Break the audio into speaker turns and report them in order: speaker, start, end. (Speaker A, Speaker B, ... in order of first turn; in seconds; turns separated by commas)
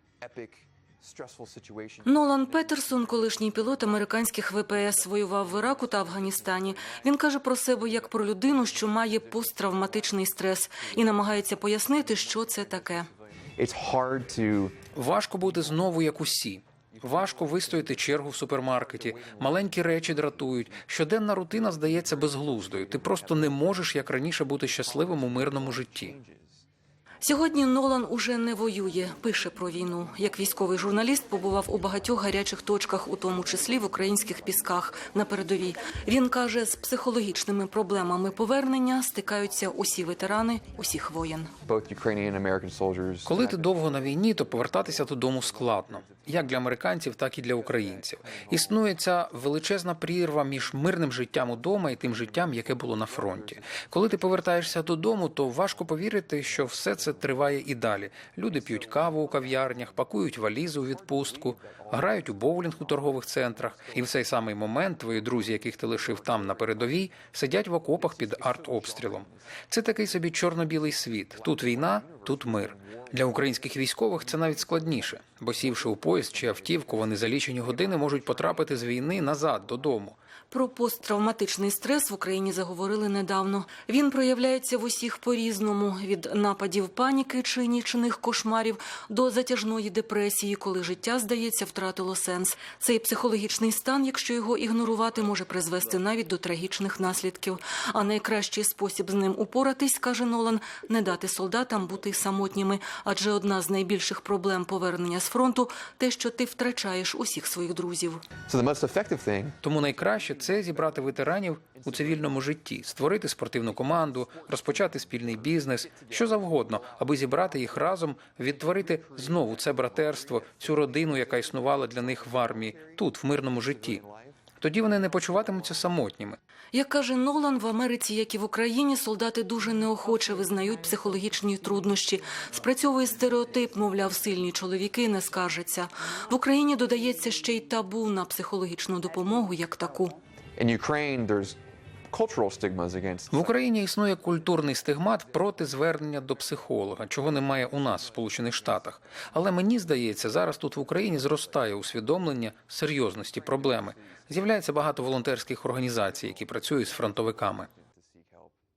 Speaker A: 0.2-3.7, Speaker B: 2.0-13.1, Speaker A: 5.2-7.0, Speaker A: 8.7-10.1, Speaker A: 10.8-14.8, Speaker C: 14.9-26.1, Speaker A: 15.7-15.9, Speaker A: 16.9-20.9, Speaker A: 21.6-26.6, Speaker B: 27.2-41.5, Speaker A: 41.6-46.6, Speaker C: 43.2-80.2, Speaker A: 47.4-48.9, Speaker A: 51.9-54.7, Speaker A: 56.4-57.4, Speaker A: 58.5-60.0, Speaker A: 60.8-67.0, Speaker A: 67.8-69.4, Speaker A: 71.1-79.8, Speaker B: 80.5-108.2, Speaker A: 108.5-112.4, Speaker C: 109.6-124.0, Speaker A: 113.6-125.9, Speaker C: 124.6-126.4, Speaker B: 126.7-140.2, Speaker A: 140.6-141.6, Speaker A: 142.1-143.5, Speaker C: 143.3-157.7, Speaker A: 155.7-158.5